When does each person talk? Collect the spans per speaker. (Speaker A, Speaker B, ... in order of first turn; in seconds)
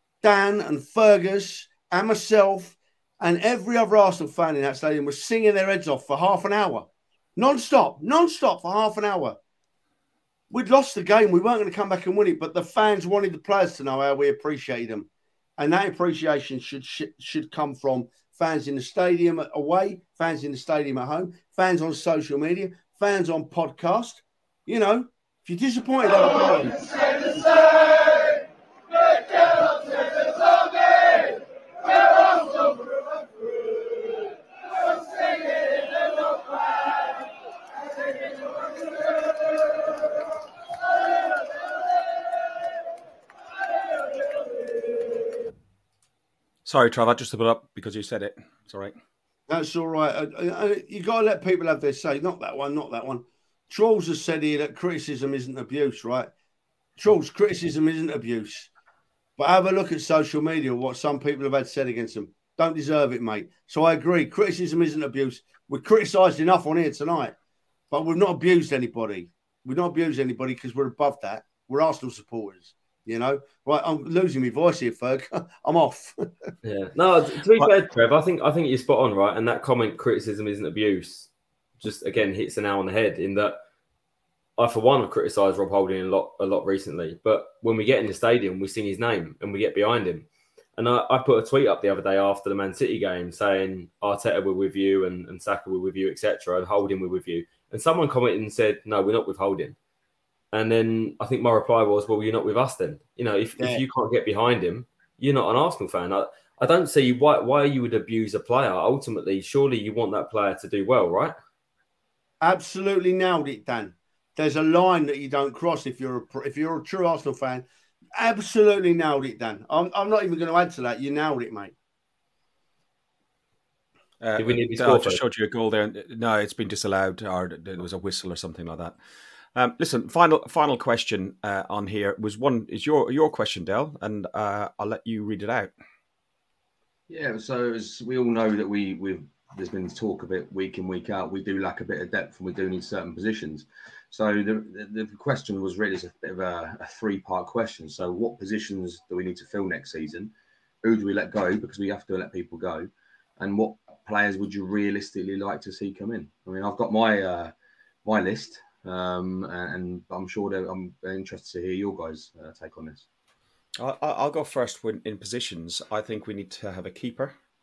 Speaker A: 0.2-9.3, 10.5-27.1, 49.5-56.3, 57.0-58.7, 59.4-67.3, 67.9-76.3, 112.4-117.6, 118.2-121.7
Speaker B: 46.6-48.9, 124.2-128.9, 129.5-135.7, 163.8-167.3
Speaker C: 76.6-81.3, 81.8-83.6, 84.6-99.8, 100.5-111.3, 124.4-125.2
Speaker D: 137.1-150.3, 150.8-157.5, 158.0-163.1